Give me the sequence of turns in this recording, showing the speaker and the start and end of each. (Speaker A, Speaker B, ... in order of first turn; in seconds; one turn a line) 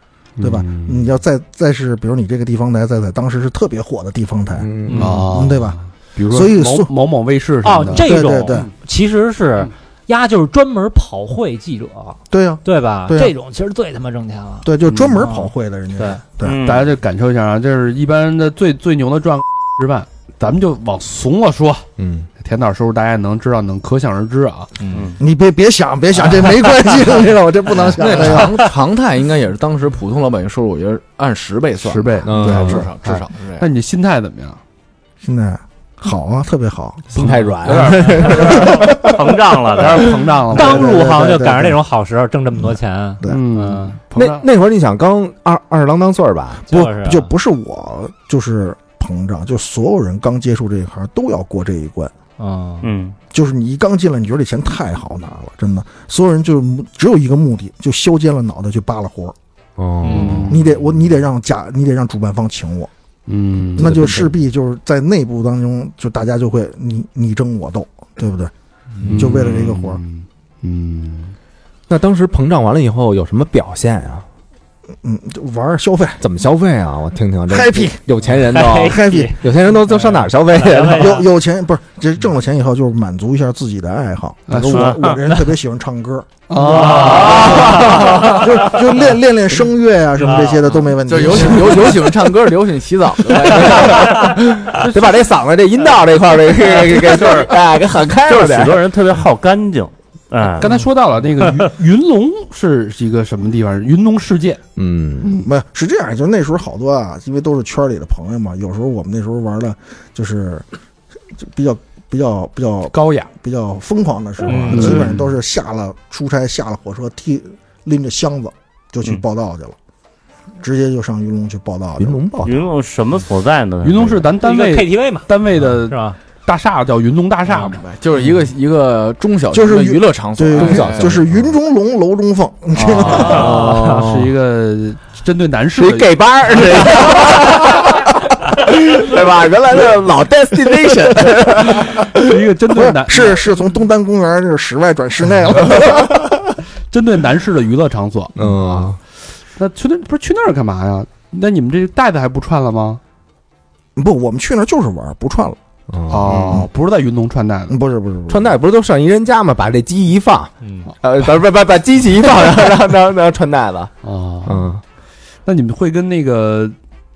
Speaker A: 0.4-1.1
Speaker B: 0.4-5.8
Speaker C: 4.6-5.3
Speaker A: 4.9-8.7
Speaker B: 6.3-6.9
Speaker D: 7.6-16.2
Speaker B: 8.0-8.7
Speaker B: 12.3-13.3
Speaker B: 14.6-16.6
Speaker E: 16.4-16.9
Speaker A: 16.6-21.9
Speaker C: 22.0-22.3
Speaker A: 22.4-24.7
Speaker D: 24.8-25.1
Speaker B: 25.2-28.6
Speaker F: 27.9-33.7
Speaker A: 31.8-34.6
Speaker C: 32.2-32.9
Speaker B: 35.2-37.1
Speaker C: 37.1-39.6
Speaker A: 37.1-38.7
Speaker E: 38.9-40.1
Speaker A: 39.8-40.9
Speaker B: 40.5-41.8
Speaker D: 40.5-43.9
Speaker A: 43.3-44.5
Speaker C: 44.1-46.7
Speaker D: 46.7-47.3
Speaker B: 46.7-52.1
Speaker D: 52.4-52.9
Speaker E: 52.8-53.2
Speaker B: 53.3-59.4
Speaker C: 59.8-60.6
Speaker D: 60.0-60.5
Speaker A: 60.1-60.6
Speaker B: 60.5-62.9
Speaker A: 63.3-64.0
Speaker C: 63.7-64.3
Speaker B: 63.8-68.5
Speaker A: 69.1-71.3
Speaker B: 69.1-70.0
Speaker C: 71.9-74.3
Speaker B: 75.0-76.2
Speaker C: 76.2-81.2
Speaker B: 77.5-78.0
Speaker D: 78.5-79.4
Speaker B: 78.6-79.5
Speaker D: 80.5-81.3
Speaker B: 80.9-86.4
Speaker A: 84.5-85.0
Speaker E: 84.7-85.1
Speaker A: 86.5-88.2
Speaker D: 86.6-88.4
Speaker C: 86.8-88.6
Speaker B: 87.3-92.1
Speaker D: 90.3-90.6
Speaker F: 90.9-94.3
Speaker C: 91.6-92.3
Speaker C: 93.3-98.8
Speaker A: 94.9-95.2
Speaker E: 96.9-97.5
Speaker E: 98.3-100.8
Speaker A: 100.6-104.6
Speaker C: 104.8-105.4
Speaker B: 105.4-110.7
Speaker B: 111.4-119.8
Speaker A: 112.9-113.3
Speaker D: 114.5-115.0
Speaker A: 114.6-115.2
Speaker B: 120.6-122.2
Speaker C: 122.0-122.6
Speaker E: 122.4-124.3
Speaker A: 123.8-127.8
Speaker D: 124.4-125.3
Speaker D: 125.9-126.2
Speaker F: 127.6-131.2
Speaker B: 129.5-133.5
Speaker C: 130.6-131.5
Speaker A: 132.8-136.9
Speaker C: 132.9-134.3
Speaker D: 133.2-133.7
Speaker C: 135.8-142.1
Speaker A: 142.1-143.4
Speaker B: 142.7-146.3
Speaker A: 146.9-148.9
Speaker C: 148.3-149.0
Speaker A: 149.6-153.0
Speaker B: 154.0-155.6
Speaker C: 155.9-156.7
Speaker A: 156.1-157.8
Speaker B: 157.7-158.6
Speaker C: 158.3-164.8
Speaker D: 160.6-160.9
Speaker A: 164.0-164.7
Speaker A: 165.4-166.8